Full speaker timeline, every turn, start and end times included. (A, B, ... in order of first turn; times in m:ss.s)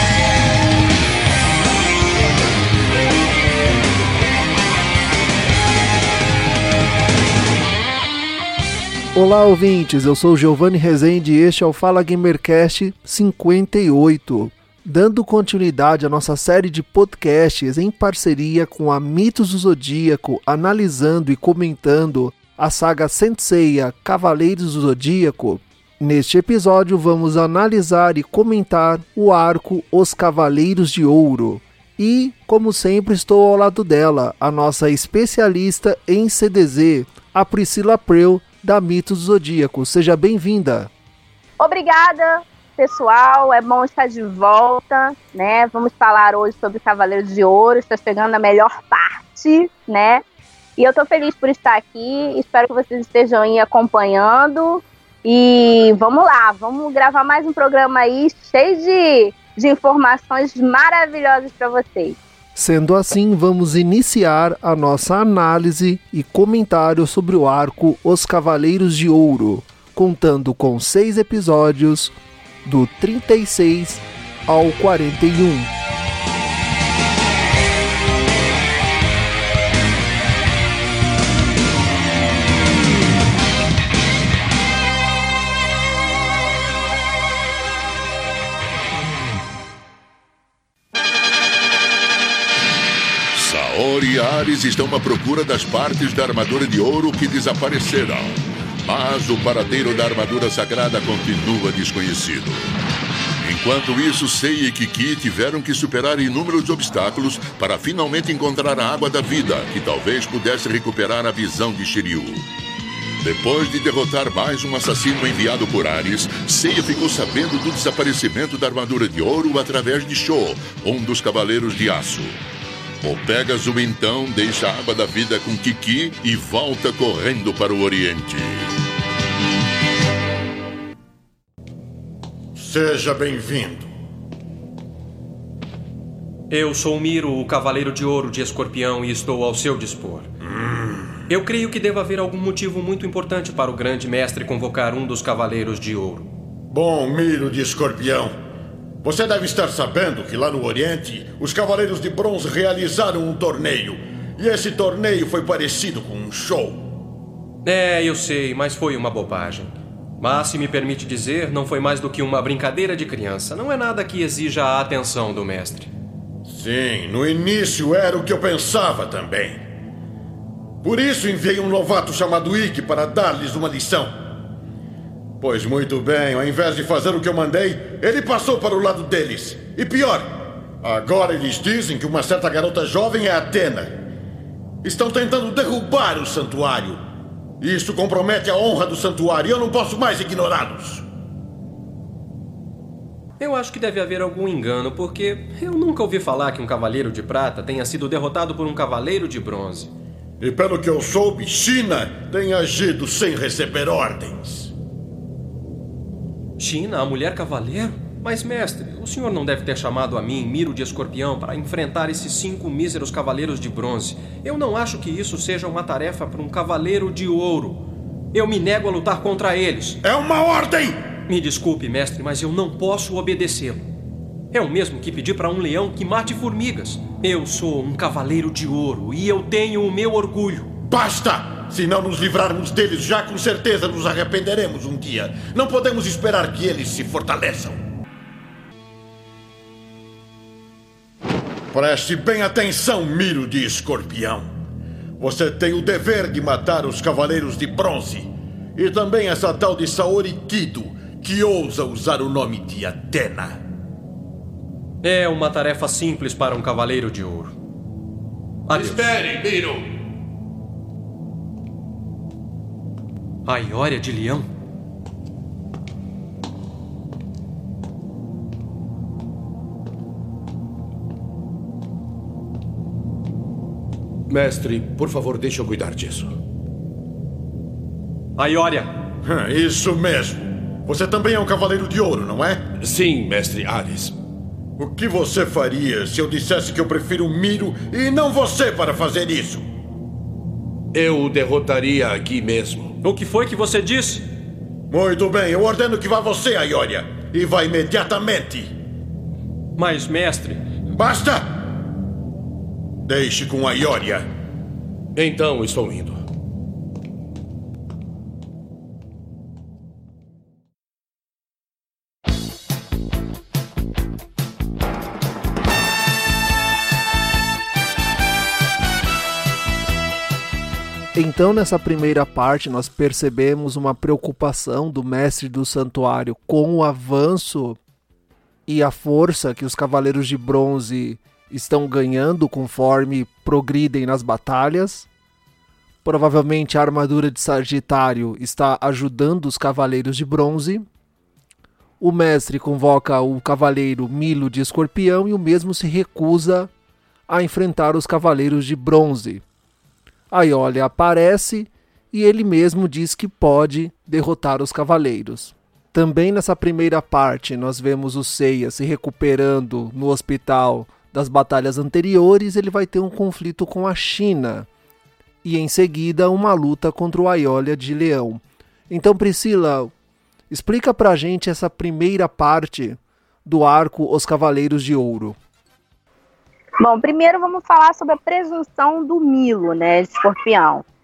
0:09.1-0:40.9 A
0:41.6-0:50.2 B
0:50.8-1:02.2 B
1:02.5-1:15.7 A
1:33.3-1:42.7 C
1:43.4-1:52.4 C
1:53.2-2:02.4 C
2:03.0-2:08.7 C
2:12.5-2:13.9 D
2:16.5-2:20.3 E
2:20.4-2:21.1 D
2:21.3-2:26.3 E
2:26.7-2:28.3 D
2:29.0-2:36.9 D
2:37.6-2:45.9 E
2:46.4-2:49.6 D
2:50.8-2:54.2 D
2:55.4-3:04.0 D
3:04.8-3:07.0 D
3:07.6-3:11.0 D
3:13.4-3:19.9 E
3:20.4-3:24.7 D
3:26.6-3:40.0 E
3:40.0-3:41.0 D
3:41.3-3:43.8 E
3:44.5-3:50.7 E
3:50.9-3:57.8 D
4:01.7-4:04.5 D
4:05.2-4:13.6 D
4:15.0-4:17.6 E
4:18.7-4:19.1 E
4:18.7-4:19.8 F
4:23.4-4:24.5 E
4:34.3-4:36.3 F
4:38.4-4:38.9 E
4:39.2-4:42.7 D
4:42.8-4:44.2 F
4:44.8-4:49.6 D
4:50.9-4:53.0 F
4:53.0-4:54.2 E
4:54.9-4:58.7 D
4:59.8-5:00.7 E
5:00.9-5:01.6 D
5:03.0-5:04.3 D
5:05.2-5:06.2 F
5:21.1-5:27.8 A
5:28.7-5:35.1 A
5:36.0-5:40.9 A
5:42.0-5:46.7 A
5:47.3-5:49.4 A
5:50.3-6:04.7 A
6:05.4-6:09.9 A
6:10.5-6:15.4 A
6:16.8-6:20.8 B